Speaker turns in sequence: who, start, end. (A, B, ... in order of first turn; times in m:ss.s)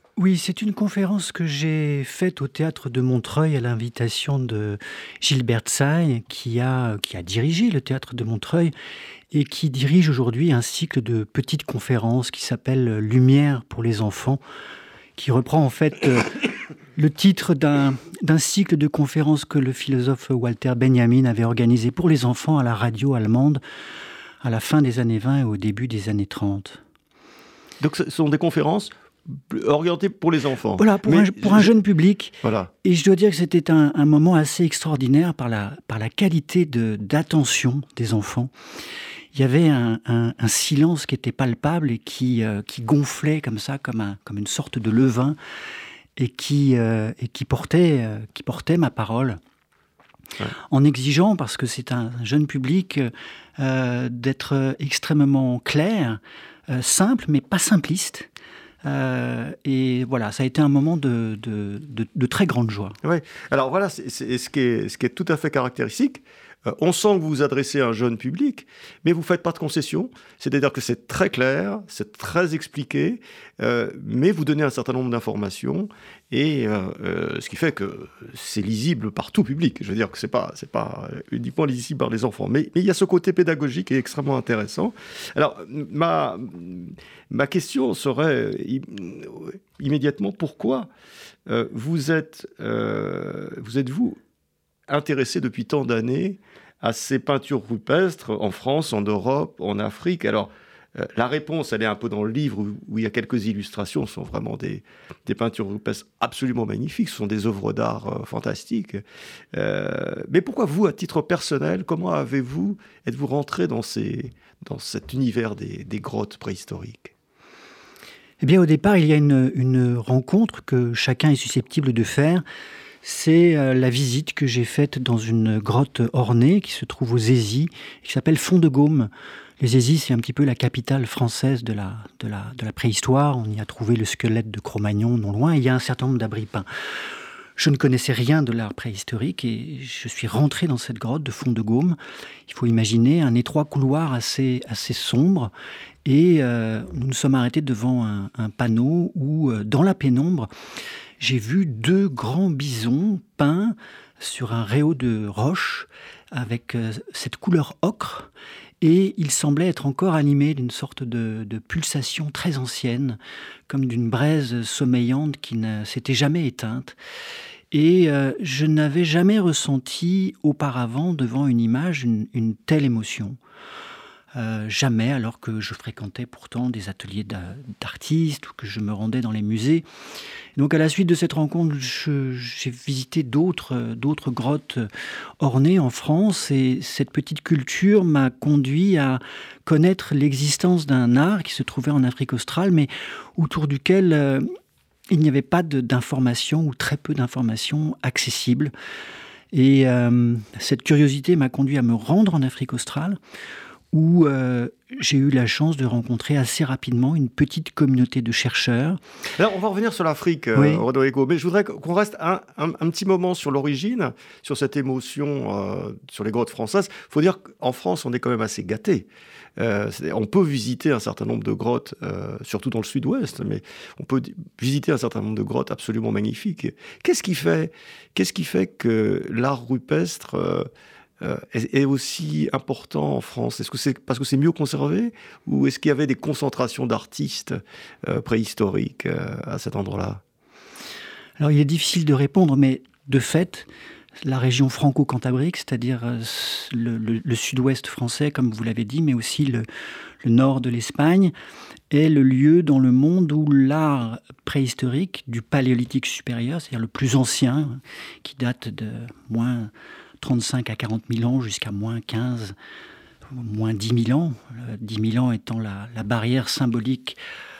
0:00.2-0:08.7 A
0:09.3-0:14.4 A
0:15.2-0:16.4 A
0:17.0-0:23.6 A
0:24.4-0:26.8 A
0:27.8-0:31.7 B
0:30.8-0:38.5 A
0:32.4-0:32.7 B
0:39.3-0:45.4 A
0:46.2-0:49.4 A
0:50.7-0:58.3 A
0:58.8-1:03.0 A
1:03.0-1:30.9 B
1:31.5-1:34.2 B
1:34.9-1:49.0 B
1:49.5-1:57.1 B
1:58.4-2:02.4 A
2:03.0-2:16.7 A
2:17.6-2:25.5 A
2:26.0-2:30.5 A
2:31.2-2:38.3 A
2:38.8-2:43.2 A
2:43.7-2:47.0 A
2:47.7-2:53.4 A
2:54.4-2:59.8 A
3:00.6-3:04.9 A
3:05.4-3:14.5 A
3:15.1-3:18.7 A
3:19.5-3:23.2 A
3:23.9-3:29.0 A
3:29.4-3:50.7 B
3:30.6-3:30.8 A
3:51.2-4:00.2 B
4:01.4-4:03.7 A
4:04.2-4:09.7 A
4:10.2-4:11.3 A
4:11.9-4:22.6 A
4:23.3-4:27.2 A